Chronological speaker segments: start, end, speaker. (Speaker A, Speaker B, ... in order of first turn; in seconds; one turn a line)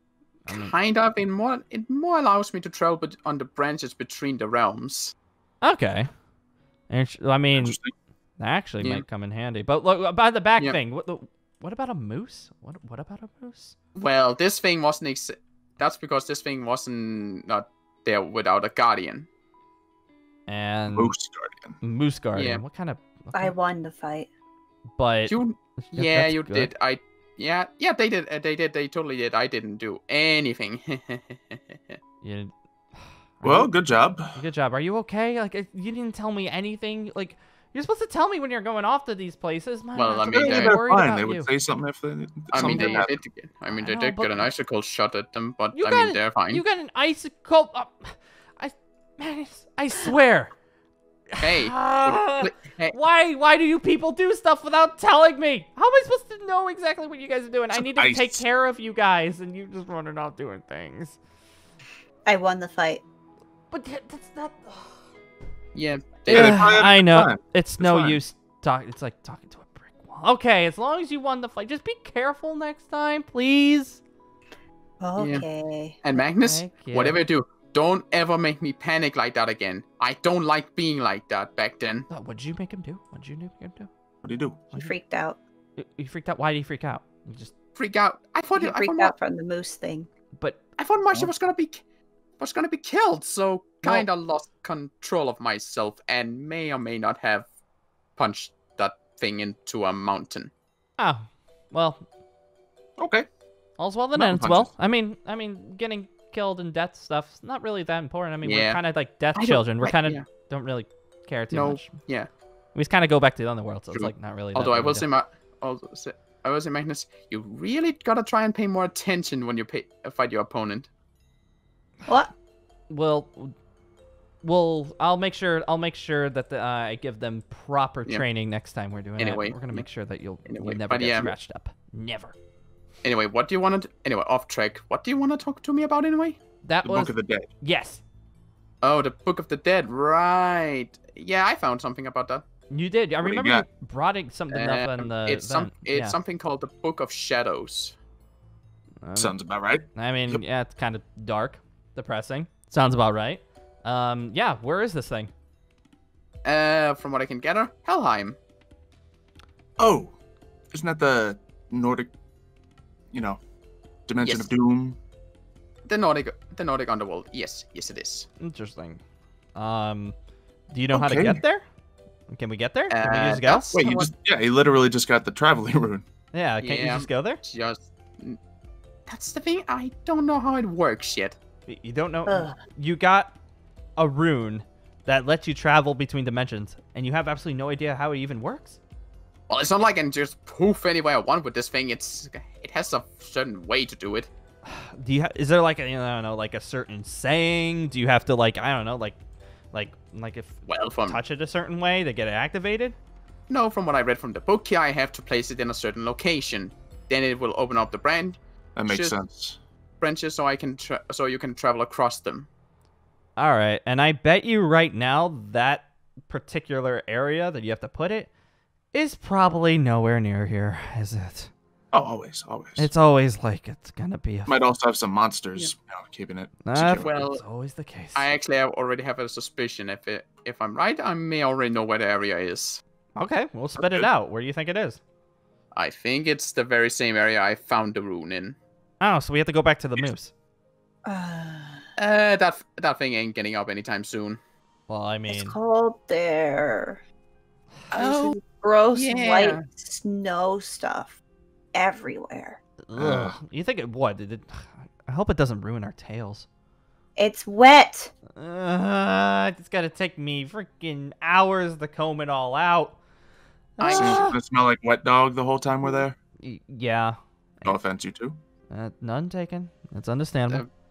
Speaker A: 0.5-0.7
Speaker B: 0.5-5.1
Speaker A: 5.6-6.1
Speaker A: 6.9-7.8
Speaker C: 7.5-7.9
Speaker A: 8.4-13.8
Speaker B: 13.9-19.3
Speaker A: 20.5-21.1
Speaker C: 20.9-21.8
Speaker A: 21.8-23.5
Speaker B: 22.4-22.6
Speaker D: 23.3-24.3
Speaker A: 25.0-25.4
Speaker B: 25.3-32.0
Speaker A: 25.9-26.7
Speaker A: 32.2-32.5
Speaker A: 33.4-33.8
Speaker C: 33.4-34.4
Speaker A: 34.3-41.5
Speaker B: 40.0-40.8
Speaker C: 40.3-43.2
Speaker B: 42.5-46.6
Speaker A: 42.5-43.1
Speaker A: 43.7-44.5
Speaker A: 45.7-50.5
Speaker A: 51.3-61.2
Speaker B: 51.4-53.0
Speaker C: 57.7-58.4
Speaker D: 62.3-63.0
Speaker A: 63.7-64.9
Speaker B: 65.8-66.8
Speaker C: 66.3-68.2
Speaker A: 66.3-74.0
Speaker D: 75.0-76.0
Speaker B: 75.2-75.5
Speaker B: 76.0-82.1
Speaker A: 76.4-77.2
Speaker A: 82.1-83.9
Speaker C: 84.2-84.7
Speaker D: 84.7-85.4
Speaker A: 85.8-87.5
Speaker B: 87.8-89.2
Speaker D: 88.5-90.1
Speaker B: 90.8-91.8
Speaker B: 92.4-97.5
Speaker B: 98.2-100.5
Speaker A: 101.0-102.0
Speaker C: 103.0-103.3
Speaker A: 103.8-111.9
Speaker C: 104.2-104.7
Speaker B: 108.4-108.8
Speaker B: 109.3-110.2
Speaker B: 111.5-112.3
Speaker A: 112.8-115.1
Speaker B: 113.9-120.9
Speaker A: 122.9-123.5
Speaker A: 124.4-132.3
Speaker B: 129.2-129.8
Speaker B: 130.5-131.3
Speaker B: 133.0-136.4
Speaker A: 136.7-138.0
Speaker C: 136.8-137.5
Speaker B: 138.8-142.4
Speaker A: 142.7-146.2
Speaker C: 143.2-143.7
Speaker B: 144.5-148.0
Speaker A: 149.1-149.4
Speaker C: 149.2-150.4
Speaker A: 149.9-155.3
Speaker B: 156.4-158.4
Speaker C: 159.8-160.2
Speaker C: 160.7-162.1
Speaker C: 163.1-163.4
Speaker C: 164.1-165.0
Speaker B: 164.2-164.5
Speaker B: 165.9-168.3
Speaker A: 168.4-169.0
Speaker A: 169.6-170.2
Speaker A: 170.7-171.6
Speaker C: 170.9-171.4
Speaker A: 172.3-173.7
Speaker B: 172.9-174.1
Speaker C: 173.7-176.1
Speaker A: 176.3-177.4
Speaker B: 176.6-178.4
Speaker B: 179.1-181.4
Speaker A: 181.7-183.3
Speaker D: 182.3-182.6
Speaker A: 184.0-188.8
Speaker B: 189.5-194.3
Speaker A: 194.7-199.2
Speaker A: 199.7-203.0
Speaker B: 200.7-201.2
Speaker B: 203.5-209.2
Speaker C: 208.8-209.6
Speaker B: 210.0-212.5
Speaker A: 213.4-218.3
Speaker A: 218.9-221.5
Speaker C: 221.9-222.9
Speaker A: 222.8-224.6
Speaker C: 224.5-227.1
Speaker A: 226.7-228.3
Speaker B: 227.0-227.4
Speaker B: 228.2-232.8
Speaker A: 233.2-235.0
Speaker C: 233.8-234.1
Speaker B: 235.7-238.6
Speaker A: 239.0-240.3
Speaker D: 241.1-241.9
Speaker B: 242.0-244.4
Speaker A: 244.9-245.6
Speaker D: 245.3-247.0
Speaker B: 247.9-248.4
Speaker D: 247.9-251.2
Speaker B: 248.9-249.6
Speaker D: 251.7-252.6
Speaker A: 252.9-256.5
Speaker C: 252.9-253.4
Speaker D: 257.2-258.1
Speaker A: 258.4-263.0
Speaker A: 263.8-264.4
Speaker B: 263.8-264.3
Speaker C: 263.9-266.2
Speaker A: 266.4-267.8
Speaker C: 267.6-268.4
Speaker A: 268.7-270.6